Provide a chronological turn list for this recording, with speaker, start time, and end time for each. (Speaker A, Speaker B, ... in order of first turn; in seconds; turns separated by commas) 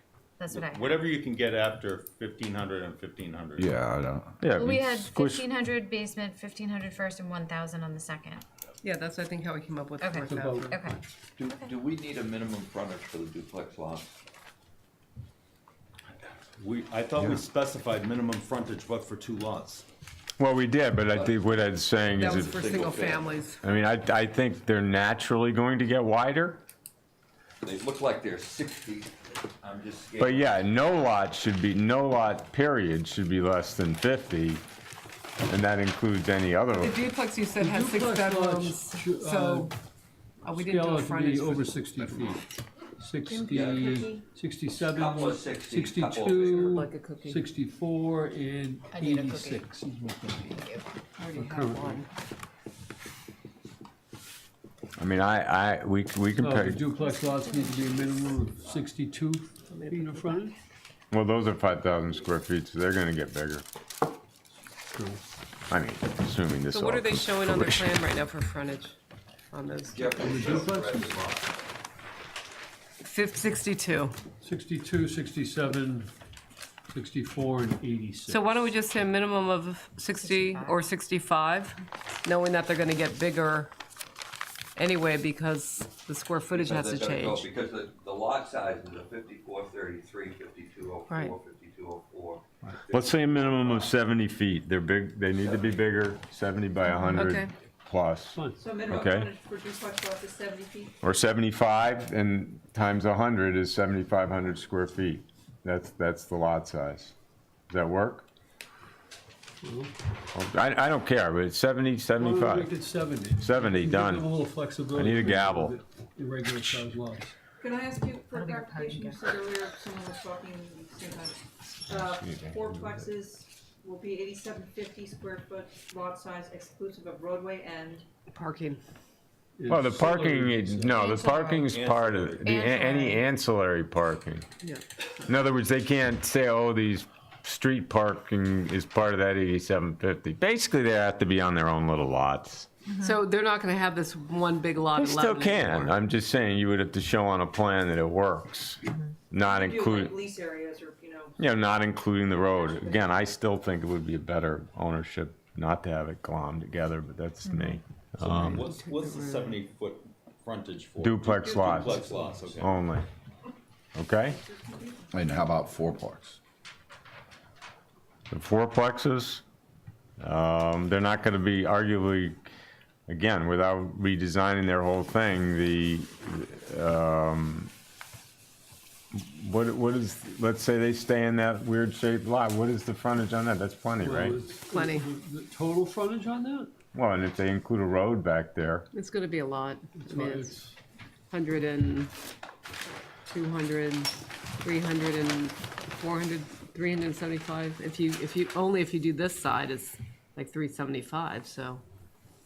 Speaker A: 0.4-1.1, Speaker B: 0.5-3.6, Speaker C: 2.1-4.3, Speaker D: 4.4-5.5, Speaker A: 4.6-8.4, Speaker E: 8.8-10.8, Speaker A: 10.0-11.8, Speaker F: 10.3-10.7, Speaker G: 11.4-14.2, Speaker B: 16.5-19.9, Speaker D: 20.4-22.6, Speaker G: 21.1-21.5, Speaker E: 22.1-23.6, Speaker G: 22.2-23.4, Speaker D: 23.6-26.6, Speaker G: 27.6-30.7, Speaker D: 30.2-34.6, Speaker D: 35.5-37.0, Speaker E: 36.7-39.7, Speaker F: 37.6-39.7, Speaker E: 40.4-41.8, Speaker F: 40.5-42.5, Speaker F: 43.0-50.6, Speaker H: 43.3-44.2, Speaker G: 43.5-43.9, Speaker G: 44.8-46.9, Speaker E: 46.4-47.5, Speaker A: 48.9-49.7, Speaker A: 50.5-50.9, Speaker E: 51.2-52.1, Speaker F: 51.3-52.0, Speaker D: 55.0-56.8, Speaker F: 56.4-60.5, Speaker A: 56.9-58.8, Speaker E: 59.7-60.5, Speaker D: 61.1-63.6, Speaker F: 64.9-65.2, Speaker D: 65.7-68.0, Speaker E: 66.7-69.0, Speaker E: 69.5-70.4, Speaker G: 69.9-71.5, Speaker F: 70.2-71.2, Speaker E: 73.0-74.2, Speaker F: 74.4-76.1, Speaker F: 76.9-78.4, Speaker E: 78.3-83.7, Speaker A: 80.2-80.8, Speaker E: 84.8-87.5, Speaker G: 86.5-94.0, Speaker E: 91.1-91.3, Speaker D: 92.9-99.3, Speaker G: 95.4-95.8, Speaker E: 97.1-97.5, Speaker H: 98.6-100.9, Speaker D: 101.0-107.1, Speaker D: 107.7-108.3, Speaker F: 109.6-109.9, Speaker D: 110.3-112.7, Speaker F: 112.2-117.4, Speaker D: 113.4-114.3, Speaker D: 115.0-115.8, Speaker H: 117.6-128.1, Speaker A: 118.3-119.3, Speaker D: 121.9-123.1, Speaker E: 128.3-128.8, Speaker F: 129.6-131.0, Speaker D: 129.7-134.5, Speaker A: 130.9-131.8, Speaker B: 131.7-132.5, Speaker A: 132.4-133.2, Speaker D: 135.2-142.7, Speaker E: 143.0-145.9, Speaker D: 144.9-150.2, Speaker H: 149.4-151.5, Speaker D: 151.4-158.7, Speaker H: 152.2-153.1, Speaker A: 157.5-157.8, Speaker B: 158.2-162.7, Speaker E: 158.5-159.6, Speaker D: 161.0-162.0, Speaker H: 161.4-162.3, Speaker F: 161.9-162.7, Speaker D: 162.6-163.1, Speaker D: 163.9-164.4, Speaker H: 164.3-165.4, Speaker C: 165.1-166.4, Speaker D: 168.3-169.4, Speaker D: 170.2-172.4, Speaker D: 173.1-177.7, Speaker D: 179.1-184.4, Speaker F: 184.0-186.7, Speaker E: 184.7-185.1, Speaker D: 186.9-188.9, Speaker E: 188.9-190.6, Speaker F: 190.0-190.8, Speaker E: 191.3-192.1, Speaker E: 193.3-201.8